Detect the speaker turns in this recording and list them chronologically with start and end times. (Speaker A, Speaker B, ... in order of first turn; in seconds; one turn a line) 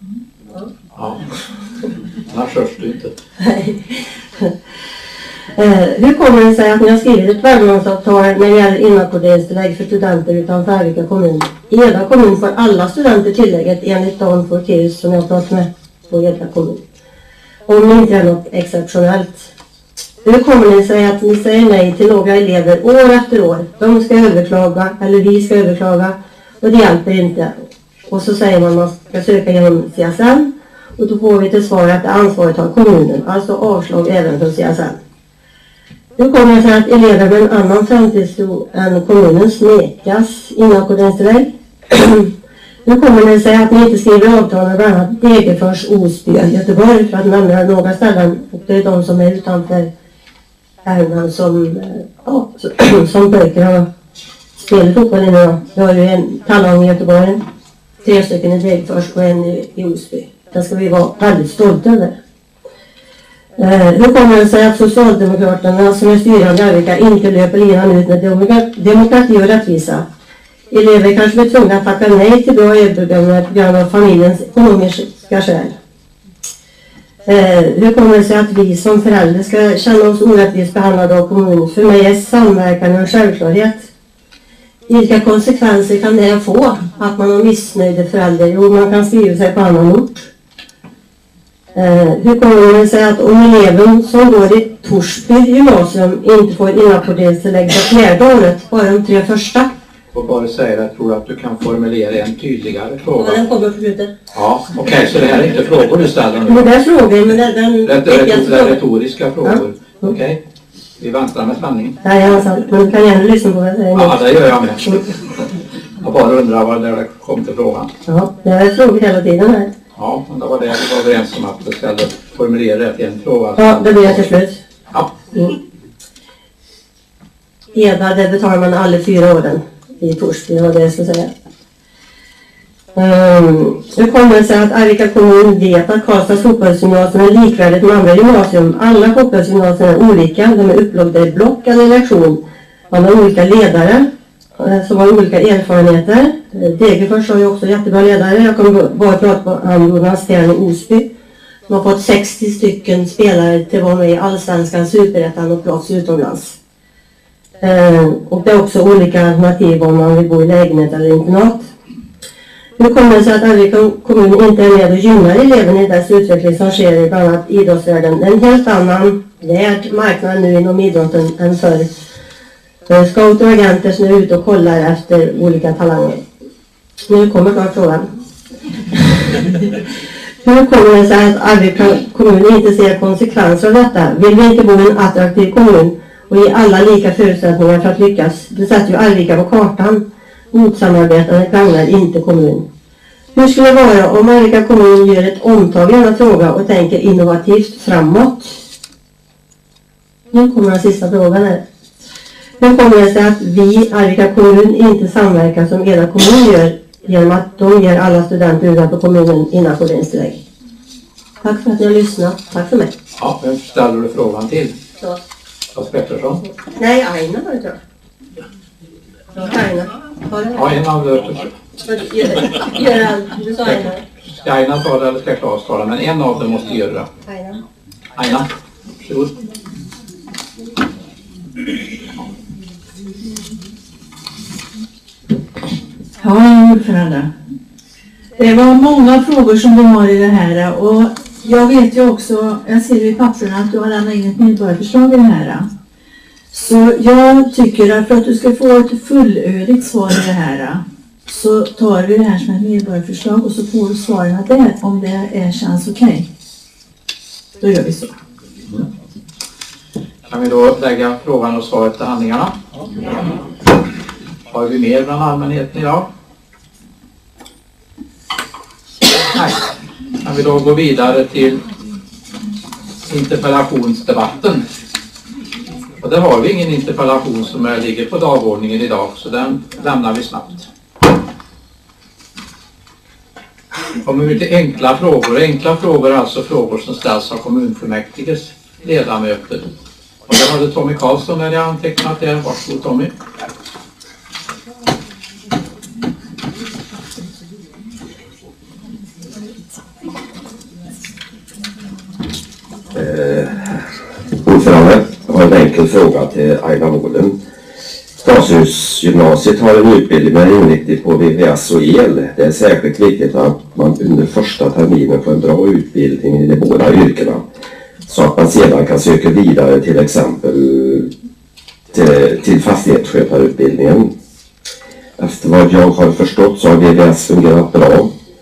Speaker A: 0.9-1.2
Speaker A: 2.3-3.1
Speaker B: 3.4-4.5
Speaker B: 5.6-16.8
Speaker B: 17.7-19.5
Speaker B: 20.2-27.6
Speaker B: 28.1-35.0
Speaker B: 36.2-42.3
Speaker B: 42.9-49.9
Speaker B: 50.9-53.9
Speaker B: 54.6-57.4
Speaker B: 58.0-62.2
Speaker B: 63.6-70.1
Speaker B: 70.7-75.8
Speaker B: 77.3-83.9
Speaker B: 84.9-90.3
Speaker B: 91.8-99.7
Speaker A: 100.1-103.4
Speaker B: 103.1-104.1
Speaker A: 104.3-106.7
Speaker B: 106.5-108.8
Speaker A: 107.8-110.4
Speaker B: 109.4-110.1
Speaker A: 111.0-112.0
Speaker B: 112.0-114.2
Speaker A: 114.0-115.2
Speaker A: 116.0-117.9
Speaker B: 118.1-119.7
Speaker A: 120.0-124.3
Speaker B: 123.6-124.6
Speaker B: 127.7-131.3
Speaker B: 132.9-151.1
Speaker B: 151.7-156.6
Speaker B: 157.6-161.7
Speaker B: 162.8-172.1
Speaker B: 172.9-176.2
Speaker B: 177.1-178.1
Speaker B: 178.9-179.5
Speaker B: 180.4-192.7
Speaker B: 193.3-198.6
Speaker B: 200.3-201.6
Speaker B: 202.6-210.4
Speaker B: 211.4-212.9
Speaker A: 213.2-214.8
Speaker A: 215.8-216.4
Speaker B: 216.8-217.8
Speaker B: 219.3-220.8
Speaker A: 220.5-221.5
Speaker B: 221.8-224.0
Speaker A: 224.3-227.1
Speaker B: 227.3-227.6
Speaker A: 228.2-228.5
Speaker A: 229.0-229.3
Speaker C: 236.2-237.3
Speaker C: 238.4-245.7
Speaker C: 246.5-256.3
Speaker C: 257.6-258.2
Speaker A: 260.3-262.6
Speaker A: 264.5-266.1
Speaker A: 269.3-269.7
Speaker A: 270.2-271.6
Speaker A: 273.0-274.6
Speaker A: 276.0-280.7
Speaker A: 284.0-289.7
Speaker A: 290.3-293.1
Speaker D: 302.9-303.8
Speaker D: 304.4-307.4
Speaker D: 308.2-317.5
Speaker D: 318.1-321.1
Speaker D: 321.9-324.1
Speaker D: 325.2-328.1